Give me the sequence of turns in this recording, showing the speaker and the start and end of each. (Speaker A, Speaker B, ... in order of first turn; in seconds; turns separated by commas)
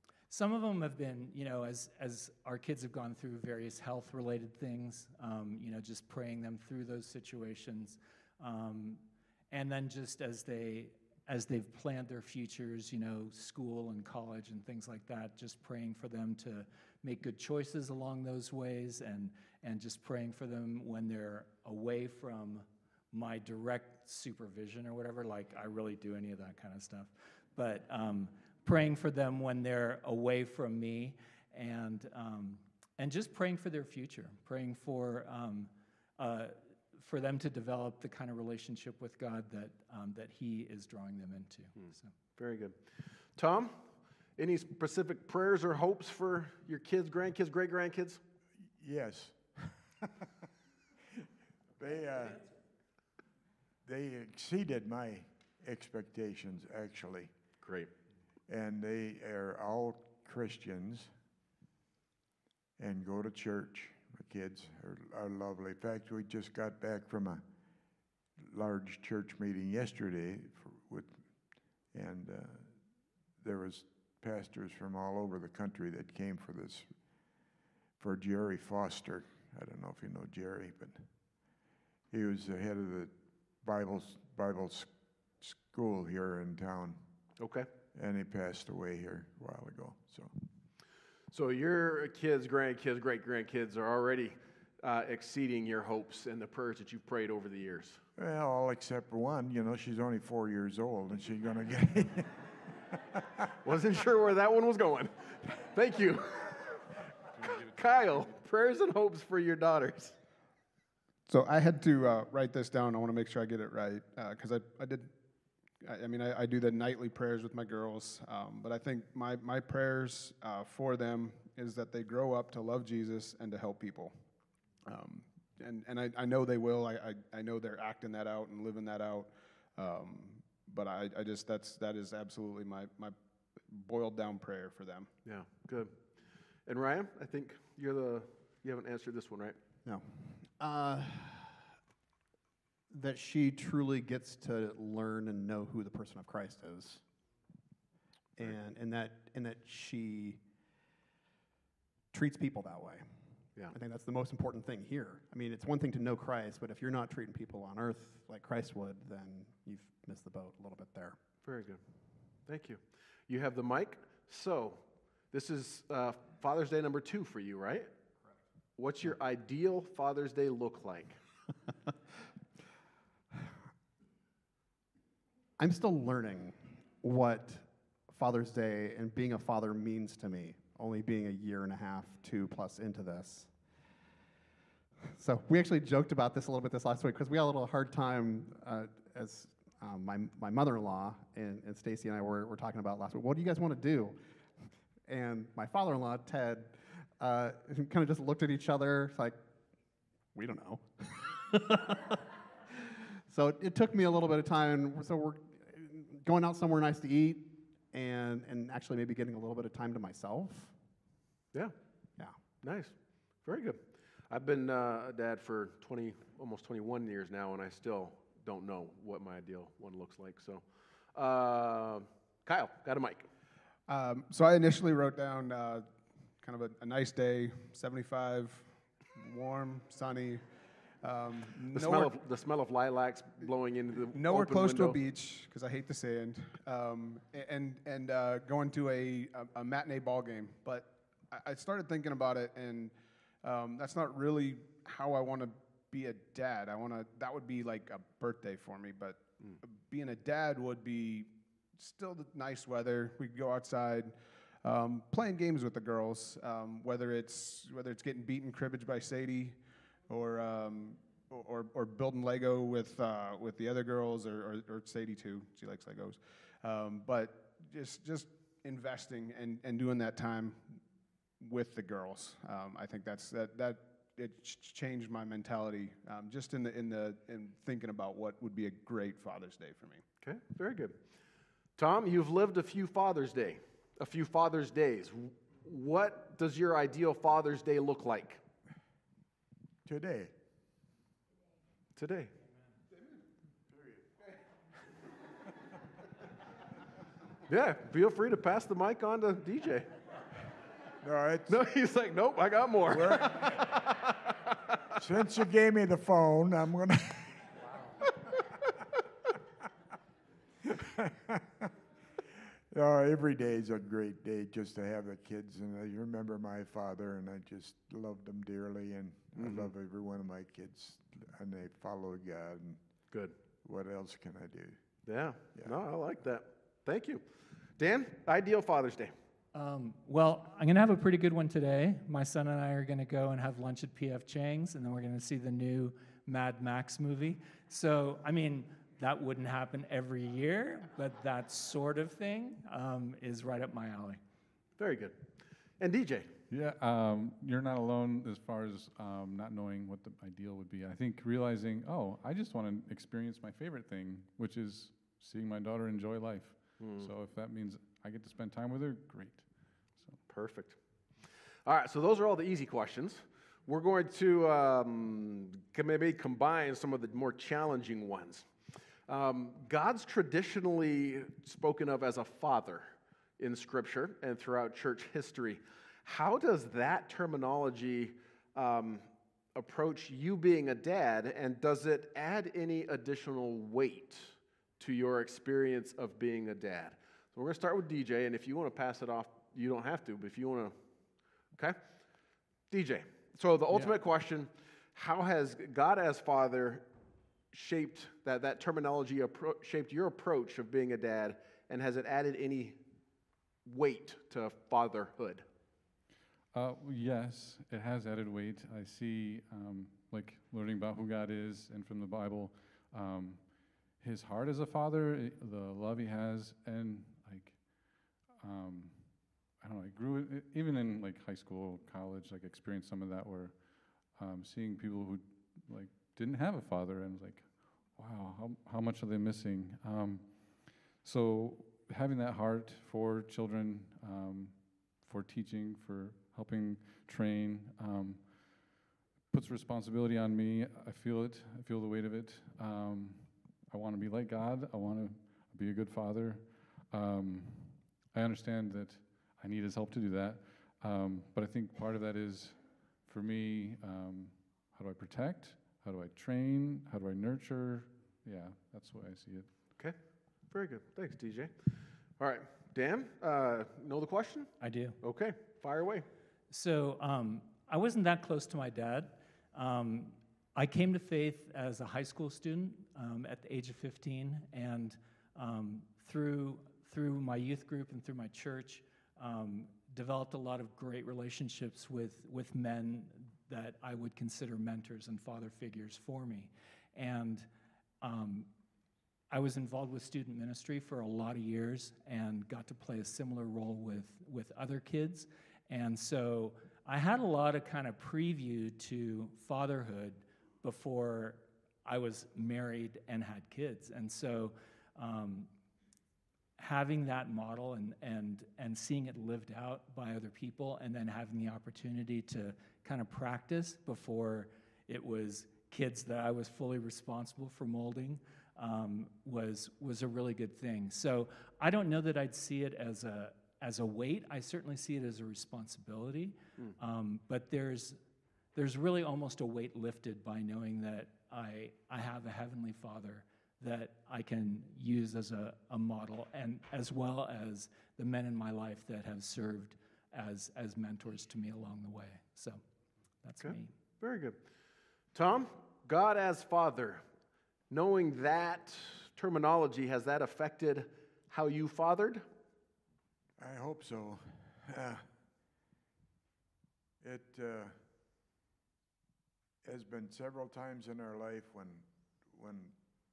Speaker A: 0.3-42.1, Speaker B: 41.8-42.8, Speaker B: 43.3-48.2, Speaker C: 48.8-50.3, Speaker C: 51.8-52.5, Speaker C: 53.8-57.3, Speaker B: 57.6-57.9, Speaker C: 58.5-61.1, Speaker C: 62.8-67.4, Speaker C: 68.4-71.2, Speaker C: 71.9-72.7, Speaker C: 73.4-76.9, Speaker C: 78.0-81.1, Speaker C: 82.1-87.0, Speaker B: 87.4-87.7, Speaker C: 87.9-90.3, Speaker B: 91.3-98.0, Speaker C: 98.2-103.2, Speaker B: 103.6-110.1, Speaker D: 111.3-115.1, Speaker D: 115.8-124.2, Speaker D: 124.8-135.1, Speaker B: 135.2-136.0, Speaker B: 136.7-139.6, Speaker E: 139.8-141.6, Speaker E: 142.9-147.0, Speaker E: 148.4-150.4, Speaker E: 152.1-153.1, Speaker E: 153.7-161.2, Speaker B: 161.4-161.8, Speaker B: 162.4-167.9, Speaker B: 168.8-171.2, Speaker E: 175.6-183.5, Speaker E: 185.1-199.4, Speaker E: 200.3-210.7, Speaker B: 212.6-220.6, Speaker B: 221.1-223.3, Speaker D: 223.9-225.9, Speaker D: 226.4-230.4, Speaker D: 231.0-232.1, Speaker B: 231.7-235.0, Speaker D: 234.1-259.6, Speaker D: 260.1-270.8, Speaker D: 271.4-280.0, Speaker B: 280.2-281.0, Speaker B: 281.8-288.4, Speaker C: 289.8-290.3, Speaker B: 291.9-292.3, Speaker C: 293.7-294.0, Speaker B: 297.5-299.9, Speaker C: 301.0-301.6, Speaker B: 301.5-304.9, Speaker C: 302.9-303.4, Speaker C: 305.0-307.5, Speaker C: 310.6-311.7, Speaker C: 312.7-322.8, Speaker B: 319.4-319.7, Speaker C: 323.6-324.8, Speaker B: 325.1-327.2, Speaker B: 327.8-329.1, Speaker A: 329.5-344.2, Speaker B: 344.8-346.3, Speaker F: 346.5-360.2, Speaker B: 356.8-357.1, Speaker B: 360.3-360.8, Speaker B: 361.6-368.5, Speaker B: 369.1-390.8, Speaker B: 392.7-396.9, Speaker B: 397.5-402.8, Speaker B: 403.6-405.4, Speaker F: 406.5-459.5, Speaker B: 460.5-461.5, Speaker B: 462.2-466.1, Speaker A: 464.6-465.0, Speaker A: 466.5-487.5, Speaker A: 488.0-488.5, Speaker A: 489.3-505.5, Speaker A: 506.6-528.0, Speaker A: 528.5-542.6, Speaker A: 543.2-543.7, Speaker B: 543.4-544.4, Speaker B: 545.1-547.0, Speaker B: 547.7-552.2, Speaker C: 553.4-555.0, Speaker C: 557.0-557.8, Speaker C: 559.6-562.8